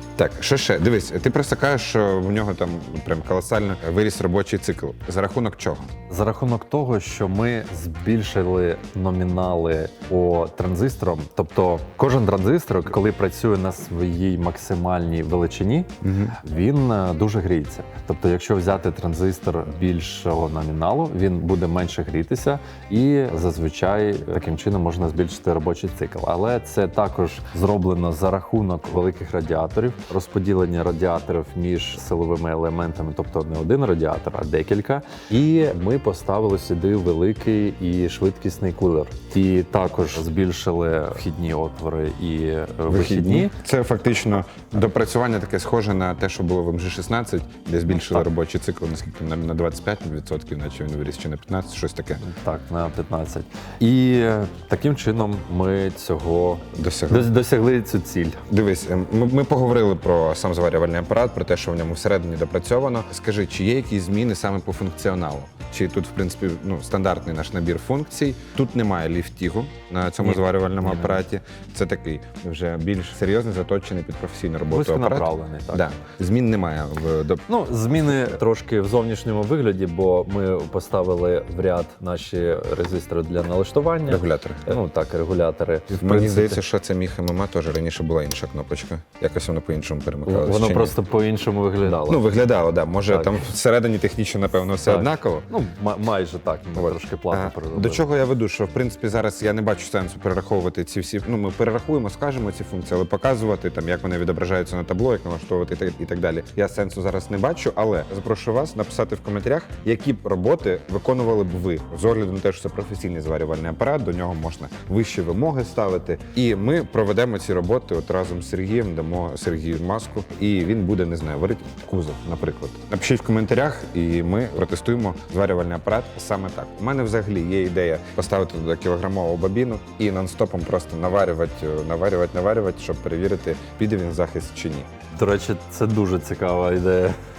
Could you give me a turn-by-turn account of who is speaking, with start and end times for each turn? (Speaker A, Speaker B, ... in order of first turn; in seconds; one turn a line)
Speaker A: 0.2-5.9
Speaker B: 6.1-43.5
Speaker A: 16.0-16.4
Speaker A: 42.9-52.2
Speaker B: 47.9-48.2
Speaker B: 52.2-58.4
Speaker A: 56.7-57.3
Speaker A: 58.5-77.4
Speaker B: 70.2-71.2
Speaker B: 74.7-75.9
Speaker B: 77.5-86.6
Speaker A: 84.1-84.8
Speaker A: 86.0-91.0
Speaker B: 90.3-92.2
Speaker A: 91.9-95.5
Speaker B: 93.1-93.5
Speaker B: 94.8-98.1
Speaker A: 96.8-134.9
Speaker B: 135.1-137.2